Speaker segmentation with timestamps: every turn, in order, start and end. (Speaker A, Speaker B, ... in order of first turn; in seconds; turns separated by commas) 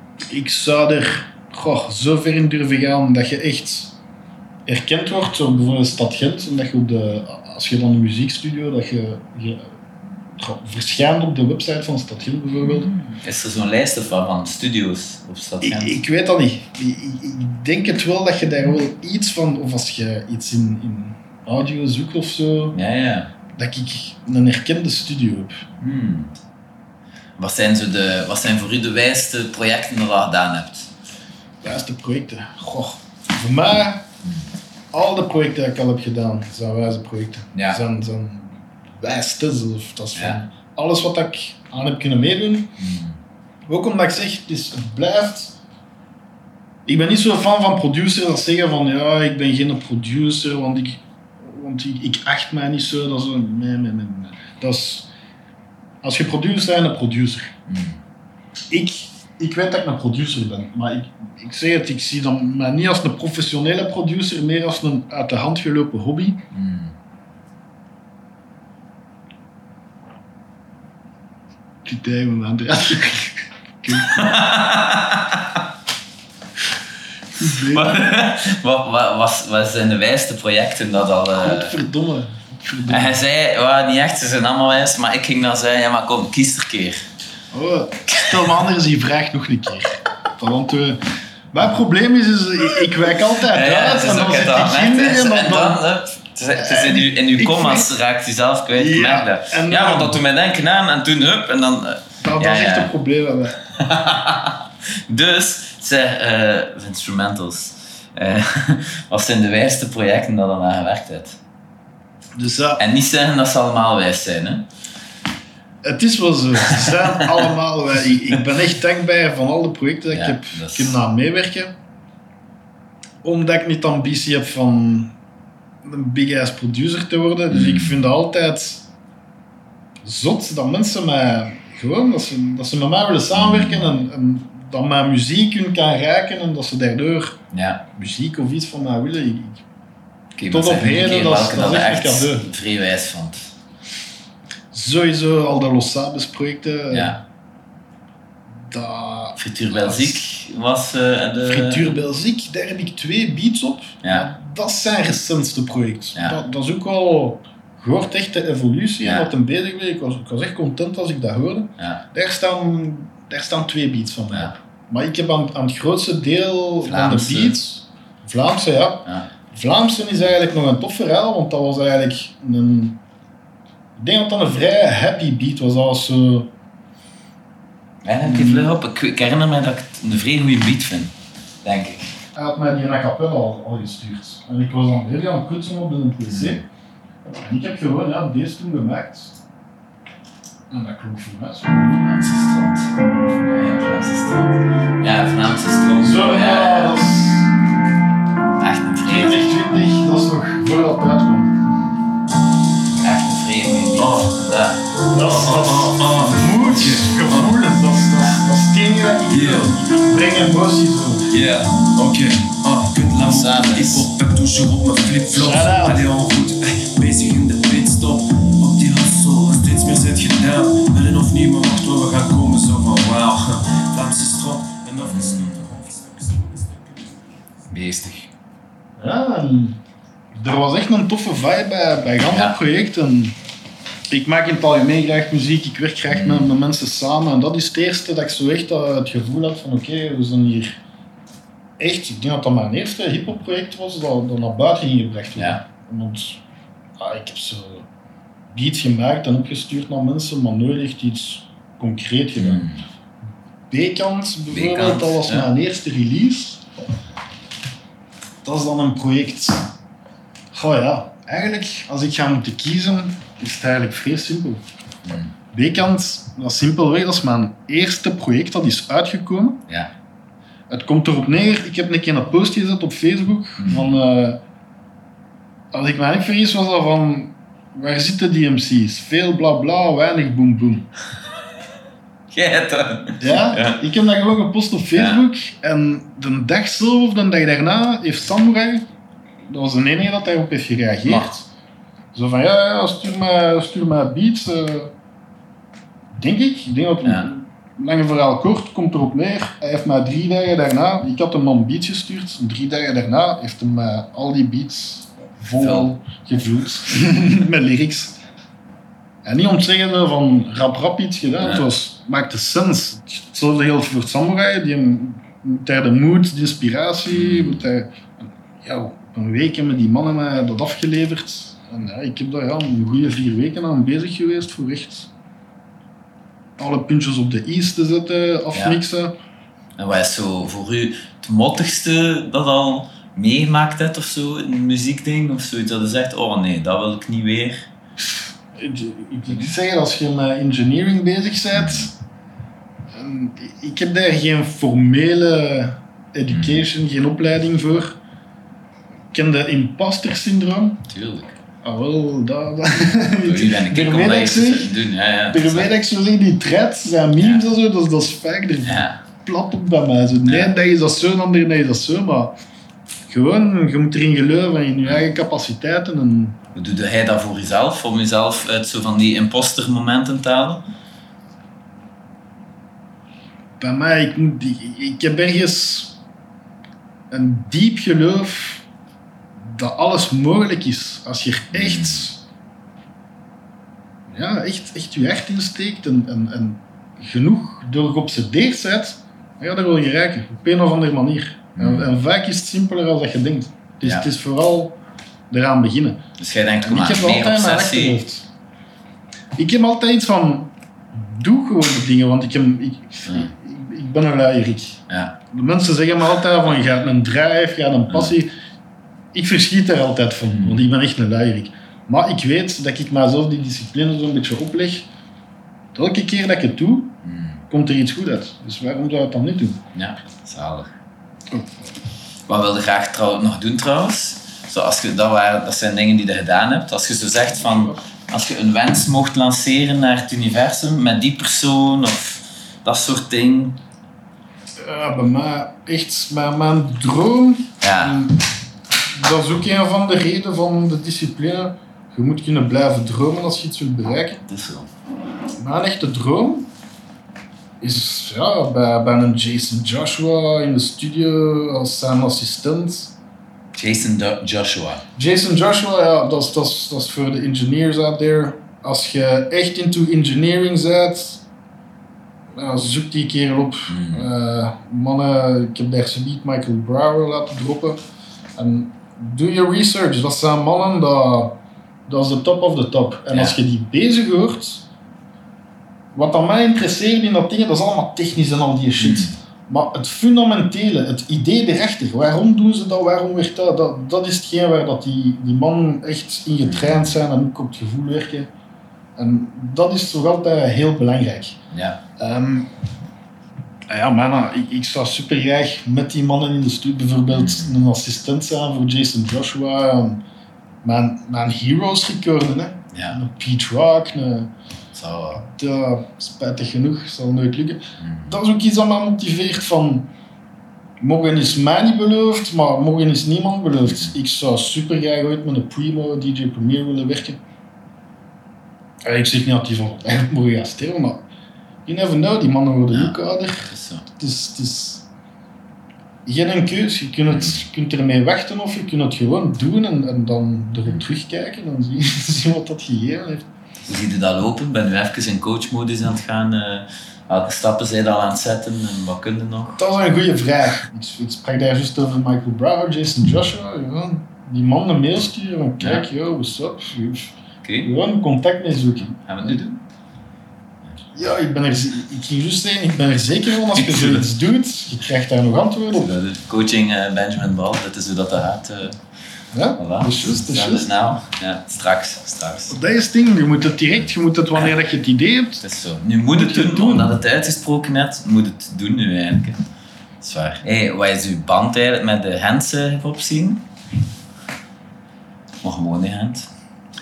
Speaker A: 0.3-4.0, Speaker A: 4.7-9.7, Speaker A: 10.4-12.9, Speaker B: 12.6-15.9, Speaker A: 15.6-22.8, Speaker B: 22.7-23.3, Speaker A: 23.5-25.6, Speaker B: 25.8-26.4, Speaker B: 27.4-30.9, Speaker A: 31.6-34.0, Speaker A: 34.9-42.7, Speaker B: 37.5-37.8, Speaker B: 42.8-43.2, Speaker A: 43.6-45.6, Speaker A: 46.9-55.1, Speaker A: 56.0-57.5, Speaker B: 57.7-58.0, Speaker A: 58.7-66.4, Speaker B: 66.5-66.9, Speaker A: 71.8-74.2, Speaker B: 73.9-75.6, Speaker A: 77.4-78.0, Speaker B: 77.4-81.8, Speaker A: 81.4-83.2, Speaker B: 82.9-87.1, Speaker A: 87.5-91.0, Speaker A: 91.5-95.8, Speaker B: 93.4-102.9, Speaker A: 96.5-97.9, Speaker A: 98.8-100.2, Speaker A: 102.2-103.6, Speaker B: 103.7-111.4, Speaker A: 112.3-112.8, Speaker B: 112.8-114.7, Speaker A: 115.8-121.7, Speaker B: 116.7-117.4, Speaker B: 120.1-121.0, Speaker A: 123.2-125.1, Speaker A: 125.8-128.8, Speaker B: 127.5-128.0, Speaker A: 130.0-137.4, Speaker B: 133.3-133.9, Speaker B: 137.5-137.8, Speaker A: 137.9-139.6, Speaker B: 140.3-143.5, Speaker A: 140.5-142.5, Speaker A: 144.7-147.2, Speaker B: 146.9-147.2, Speaker A: 148.6-150.2, Speaker B: 149.4-152.0, Speaker A: 151.4-173.0, Speaker B: 154.0-154.3, Speaker B: 159.0-159.3, Speaker B: 161.8-162.0, Speaker B: 166.8-167.6, Speaker A: 173.9-176.5, Speaker B: 178.0-182.1, Speaker A: 178.2-178.7, Speaker A: 182.3-186.6, Speaker B: 186.2-186.6, Speaker A: 187.2-189.3, Speaker A: 190.7-192.1, Speaker B: 192.0-197.0, Speaker A: 196.0-197.5, Speaker B: 198.6-199.5, Speaker A: 199.0-201.6, Speaker B: 203.0-204.8, Speaker C: 204.0-204.4, Speaker A: 205.1-211.3, Speaker C: 205.1-207.6, Speaker C: 209.3-209.7, Speaker C: 211.3-227.1, Speaker B: 213.2-214.1, Speaker A: 215.3-216.0, Speaker B: 225.0-225.7, Speaker B: 227.7-228.3, Speaker A: 229.0-229.8, Speaker A: 230.3-233.3, Speaker B: 232.2-232.6, Speaker A: 234.1-240.8, Speaker B: 236.1-236.5, Speaker A: 241.8-246.4, Speaker B: 245.3-245.6, Speaker A: 247.0-247.9, Speaker A: 248.5-252.6, Speaker B: 252.4-252.8, Speaker A: 253.7-256.6, Speaker B: 254.5-255.5, Speaker A: 258.4-259.7, Speaker A: 260.5-264.6, Speaker B: 265.0-265.3, Speaker A: 265.5-269.6, Speaker A: 270.7-274.4, Speaker B: 273.6-274.0, Speaker A: 275.7-280.9, Speaker B: 282.3-283.8, Speaker A: 283.2-288.9, Speaker B: 284.9-285.2, Speaker A: 289.5-291.5, Speaker B: 291.1-291.3, Speaker A: 292.1-294.9, Speaker A: 296.1-308.2, Speaker B: 297.0-297.3, Speaker B: 305.6-305.9, Speaker A: 309.2-325.1, Speaker B: 311.4-311.7, Speaker B: 317.1-317.7, Speaker A: 326.6-329.1, Speaker B: 328.5-328.8, Speaker B: 329.8-337.7, Speaker A: 338.5-341.9, Speaker B: 341.5-341.9, Speaker A: 342.9-348.0, Speaker B: 346.3-346.6, Speaker A: 349.1-350.8, Speaker B: 350.9-351.4, Speaker A: 351.6-354.7, Speaker B: 353.2-355.7, Speaker A: 355.3-362.4, Speaker B: 357.2-357.4, Speaker B: 358.6-359.0, Speaker B: 360.2-360.5, Speaker A: 363.1-366.4, Speaker B: 366.5-370.6, Speaker A: 373.6-376.0, Speaker A: 377.1-378.6, Speaker A: 379.4-382.2, Speaker B: 381.5-382.1, Speaker A: 384.1-394.8, Speaker B: 391.6-391.9, Speaker A: 395.3-396.0, Speaker B: 396.2-398.0, Speaker A: 396.6-398.3, Speaker A: 399.4-408.3, Speaker B: 404.9-405.2, Speaker B: 407.9-408.1, Speaker A: 409.1-414.9, Speaker B: 410.3-410.6, Speaker A: 415.7-416.9, Speaker B: 417.0-417.4, Speaker A: 417.5-419.6, Speaker B: 419.7-420.7, Speaker B: 422.3-433.6, Speaker A: 427.3-427.8, Speaker A: 434.6-438.2, Speaker B: 437.6-438.0, Speaker A: 438.9-444.2, Speaker B: 444.3-444.7, Speaker A: 445.4-446.5, Speaker A: 447.6-452.9, Speaker B: 453.5-454.8, Speaker A: 454.9-461.2, Speaker A: 462.4-467.8, Speaker B: 463.7-464.1, Speaker A: 468.4-474.6, Speaker B: 473.1-473.4, Speaker A: 475.9-488.3, Speaker B: 478.8-479.1, Speaker B: 486.5-486.9, Speaker A: 489.0-491.4, Speaker B: 491.5-491.8, Speaker A: 492.0-492.5, Speaker A: 493.7-500.0, Speaker B: 497.1-497.6, Speaker A: 500.6-504.3, Speaker B: 502.7-503.0, Speaker B: 504.7-505.2, Speaker A: 505.1-509.9, Speaker B: 507.8-508.2, Speaker A: 510.8-517.2, Speaker B: 513.6-513.9, Speaker A: 518.8-521.0, Speaker A: 521.6-524.9, Speaker B: 522.7-523.9, Speaker A: 526.0-533.3, Speaker B: 527.1-527.4, Speaker B: 533.7-539.6, Speaker A: 539.6-549.5, Speaker B: 545.6-545.8, Speaker B: 547.4-547.7, Speaker B: 548.8-549.5, Speaker A: 550.9-555.9, Speaker B: 553.5-554.0, Speaker B: 555.7-558.8, Speaker A: 559.3-560.7, Speaker B: 559.6-562.6, Speaker A: 562.5-565.4, Speaker B: 565.4-569.4, Speaker A: 566.1-567.0, Speaker B: 570.0-573.4, Speaker B: 575.4-576.3